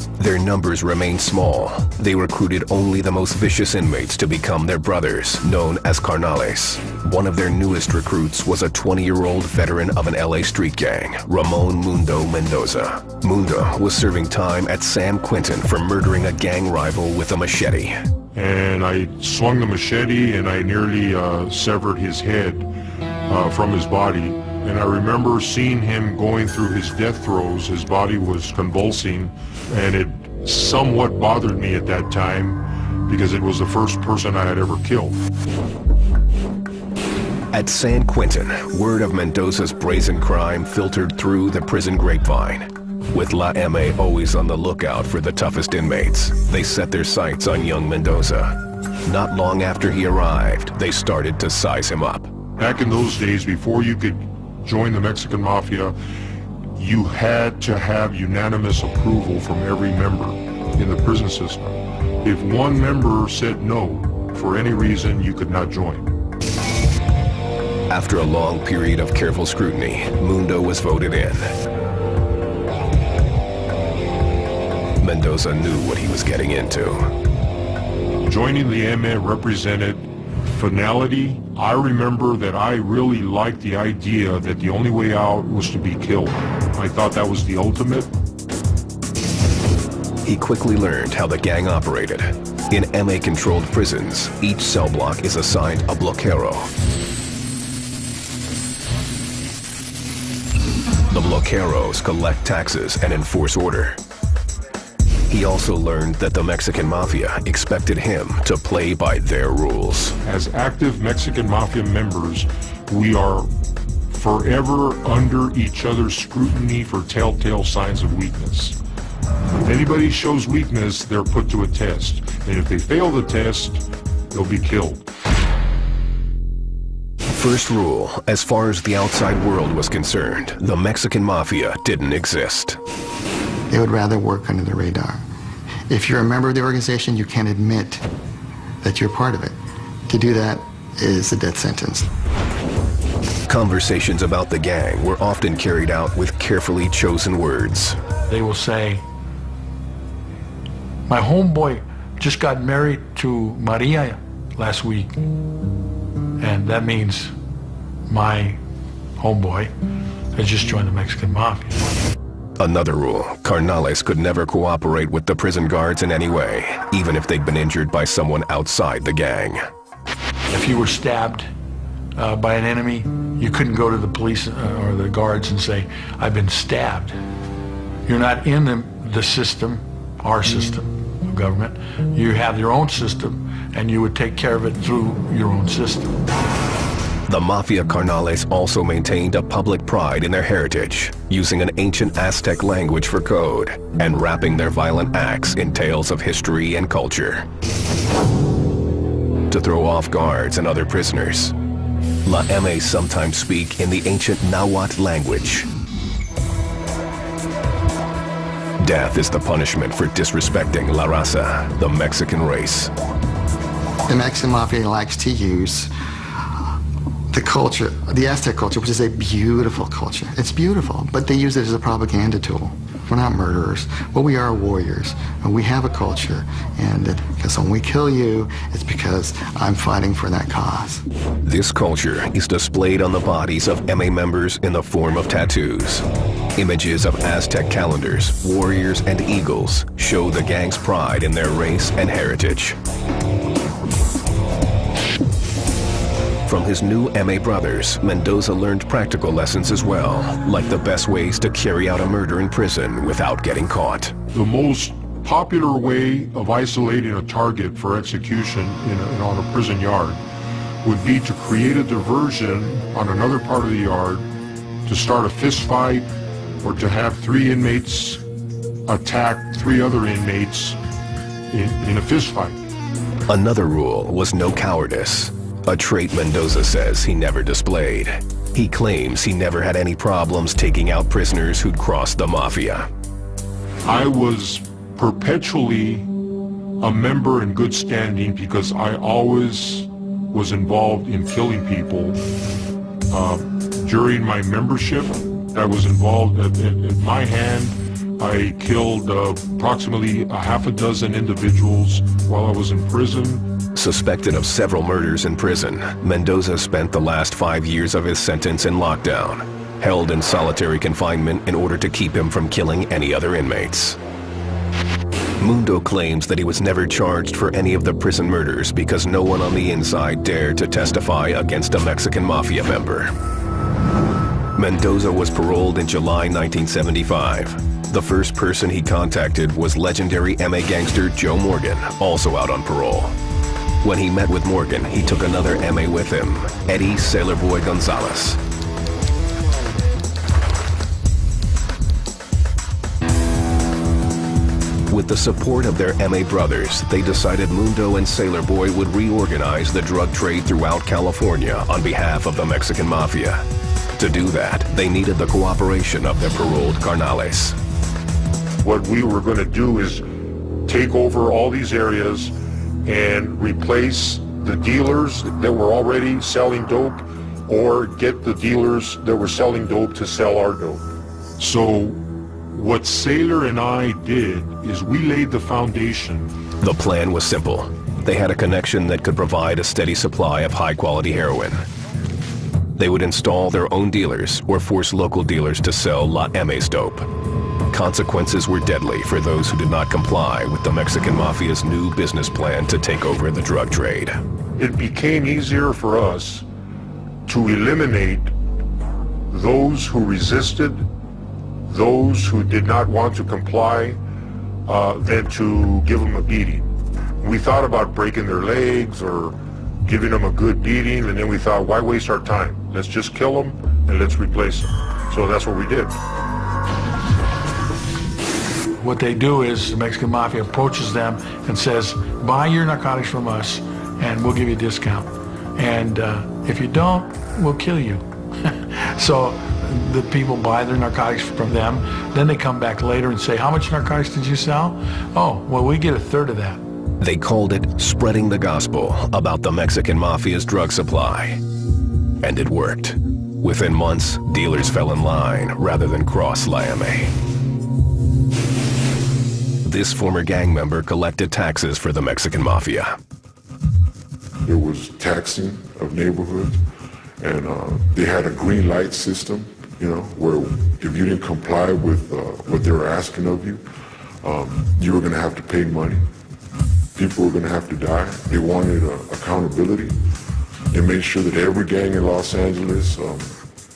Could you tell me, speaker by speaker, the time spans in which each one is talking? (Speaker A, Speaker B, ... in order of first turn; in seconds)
Speaker A: 0.2-18.0, 37.5-52.3, 67.9-71.5, 75.0-77.1, 90.2-96.7, 101.1-104.0, 105.3-110.2, 127.3-132.8, 143.5-148.0, 162.6-169.6, 187.3-197.5, 199.5-201.6, 202.2-205.7, 208.8-212.9, 231.4-242.8, 246.5-254.2, 273.3-282.9, 303.8-314.0, 315.4-323.1, 324.6-333.1, 333.8-338.4, 344.9-353.4, 354.0-357.6, 376.6-381.6, 382.8-387.1, 387.7-394.2, 437.0-441.4, 442.2-447.1, 449.6-452.9
Speaker B: 18.4-22.7, 23.3-35.2, 52.6-56.0, 56.8-66.1, 78.2-88.1, 110.2-113.5, 114.1-118.8, 119.6-125.1, 254.3-260.2, 260.8-264.3, 264.9-266.1, 266.6-268.2, 268.9-270.8, 271.5-272.6, 283.9-286.1, 286.8-292.2, 293.1-303.4, 358.6-360.0, 360.7-362.3, 362.9-370.8, 371.4-376.3, 394.6-396.4, 397.3-398.3, 399.3-400.9, 401.7-404.0, 404.7-406.7, 407.2-416.0
Speaker C: 133.7-135.2, 135.9-138.1, 138.8-139.6, 140.1-142.1, 214.1-215.9, 217.3-231.0
Speaker D: 148.3-149.0, 151.1-155.2, 156.4-157.3, 158.1-158.6, 159.2-159.7, 160.3-161.7, 170.5-171.5, 172.2-177.2, 178.1-186.2, 418.8-436.6
Speaker E: 454.4-456.6, 457.2-463.6, 464.2-466.1, 467.0-470.0, 470.7-473.3